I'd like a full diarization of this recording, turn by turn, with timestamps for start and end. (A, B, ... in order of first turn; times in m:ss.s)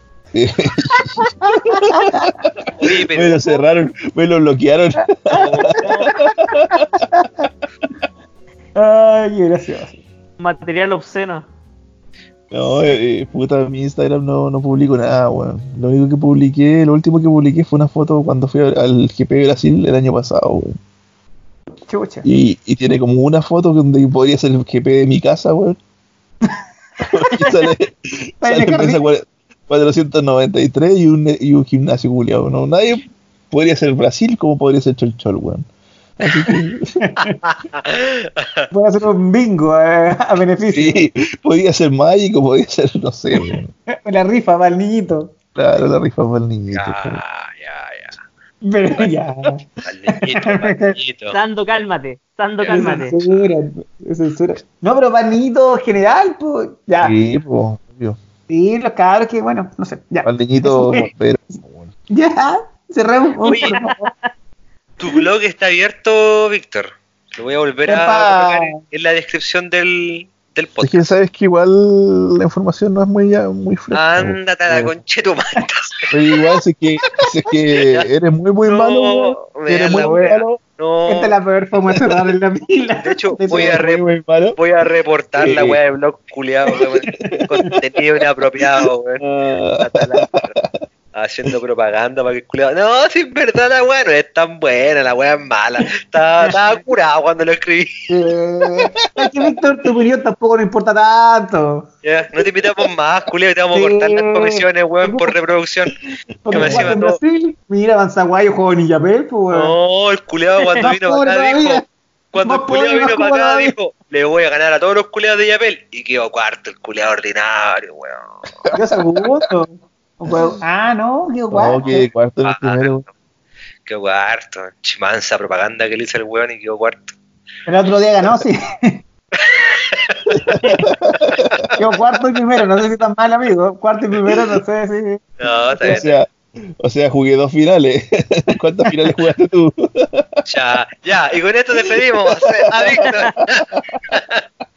0:00.3-0:02.5 A
0:01.4-0:02.3 B
0:02.8-0:03.4 C
0:03.1-0:07.0 A
0:05.3-0:06.1 C
0:05.3-0:06.8 B
0:08.8-0:10.0 B
0:10.4-0:11.5 D
0:12.5-0:20.8 A
0:21.9-0:22.3 B
0:22.2-0:25.8 A
0:26.5-0:27.7 B
0:27.1-0:35.6 A
0:28.4-0:29.0 B
0:36.2-0:37.1 A
0:36.5-0:37.4 B
0:37.4-0:38.7 C
0:38.7-0:41.0 B
0:40.7-0:43.7 A
0:43.9-0:45.4 B
0:45.6-0:47.2 A
0:46.7-0:48.2 C
0:48.6-0:51.0 B
0:49.8-0:51.4 C
0:51.3-0:53.1 D
0:52.6-0:53.5 C
0:52.7-0:57.1 B
0:57.0-0:58.2 A
0:58.5-1:01.1 B
1:00.2-1:01.9 A
1:02.1-1:04.1 B
1:03.4-1:03.8 C
1:03.5-1:04.3 D
1:05.0-1:11.1 C
1:07.9-1:08.8 B
1:10.8-1:14.9 A
1:13.9-1:16.1 C
1:16.1-1:20.6 A
1:17.7-1:18.0 C
1:18.7-1:21.3 C
1:20.0-1:20.4 B
1:21.1-1:23.8 B
1:23.0-1:24.0 C
1:23.5-1:24.6 A
1:24.6-1:30.5 C
1:25.4-1:25.8 A
1:26.7-1:27.7 B
1:27.2-1:27.6 A
1:29.2-1:30.8 A
1:31.1-1:38.1 C
1:38.1-1:41.9 B
1:38.6-1:39.3 A
1:42.0-1:46.0 C
1:43.7-1:45.3 B
1:46.4-1:49.7 B
1:46.5-1:47.0 A
1:46.5-1:47.2 C
1:49.5-1:58.5 C
1:50.8-1:51.8 B
1:52.4-1:53.7 B
1:58.5-1:58.8 A
1:58.7-2:02.1 B
2:01.5-2:03.0 A
2:02.4-2:03.1 C
2:03.8-2:07.1 C
2:07.6-2:09.0 B
2:09.4-2:10.4 C
2:10.3-2:11.7 A
2:11.3-2:11.7 C
2:11.8-2:15.2 B
2:15.4-2:16.2 C
2:15.8-2:20.4 A
2:20.5-2:24.4 C
2:21.9-2:23.8 A
2:23.1-2:23.3 D